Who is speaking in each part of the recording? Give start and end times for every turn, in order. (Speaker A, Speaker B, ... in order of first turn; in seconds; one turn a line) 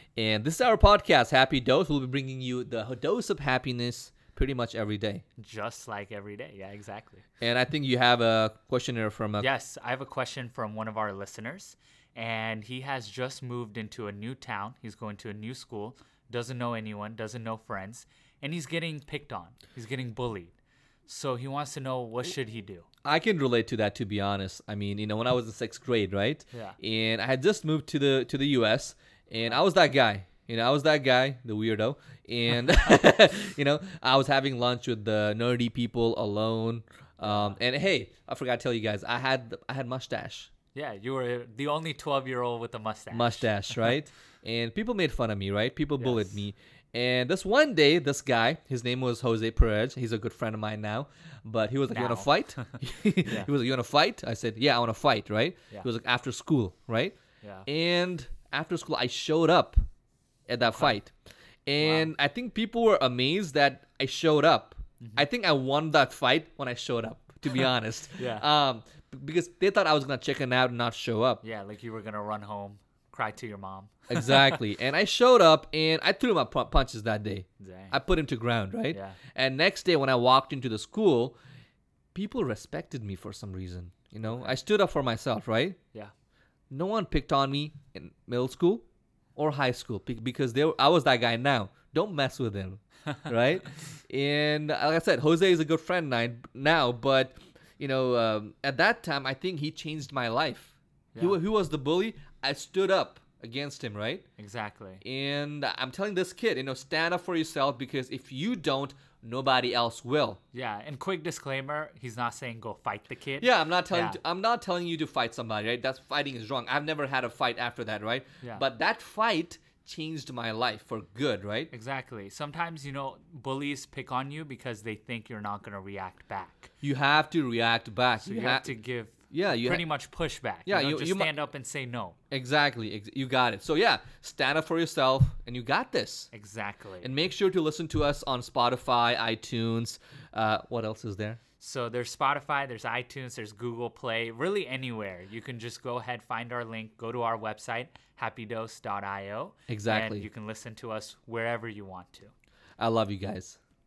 Speaker A: 0.2-5.2
Speaker B: 5.4-7.2
Speaker A: 7.4-9.5
Speaker B: 9.4-22.9
Speaker A: 23.0-40.5
Speaker B: 26.5-26.8
Speaker B: 37.2-37.6
Speaker B: 40.7-43.9
Speaker A: 43.1-57.1
Speaker B: 46.0-46.4
Speaker B: 51.9-53.5
Speaker B: 57.4-57.7
Speaker A: 57.7-59.8
Speaker A: 60.5-61.1
Speaker B: 60.6-61.0
Speaker A: 61.7-71.4
Speaker B: 61.8-62.1
Speaker B: 68.2-68.5
Speaker B: 71.4-74.6
Speaker A: 74.1-81.4
Speaker B: 77.6-78.0
Speaker B: 78.9-79.2
Speaker A: 82.1-85.8
Speaker B: 84.2-84.6
Speaker A: 86.7-88.8
Speaker A: 89.4-104.2
Speaker B: 104.4-105.0
Speaker A: 105.0-110.4
Speaker B: 110.5-114.2
Speaker A: 113.4-121.7
Speaker B: 121.7-126.7
Speaker A: 126.8-128.7
Speaker B: 128.2-132.2
Speaker A: 129.3-129.8
Speaker A: 130.7-131.3
Speaker A: 132.3-136.3
Speaker B: 136.3-137.1
Speaker A: 137.0-141.4
Speaker B: 141.6-152.3
Speaker A: 149.7-150.3
Speaker A: 152.8-153.6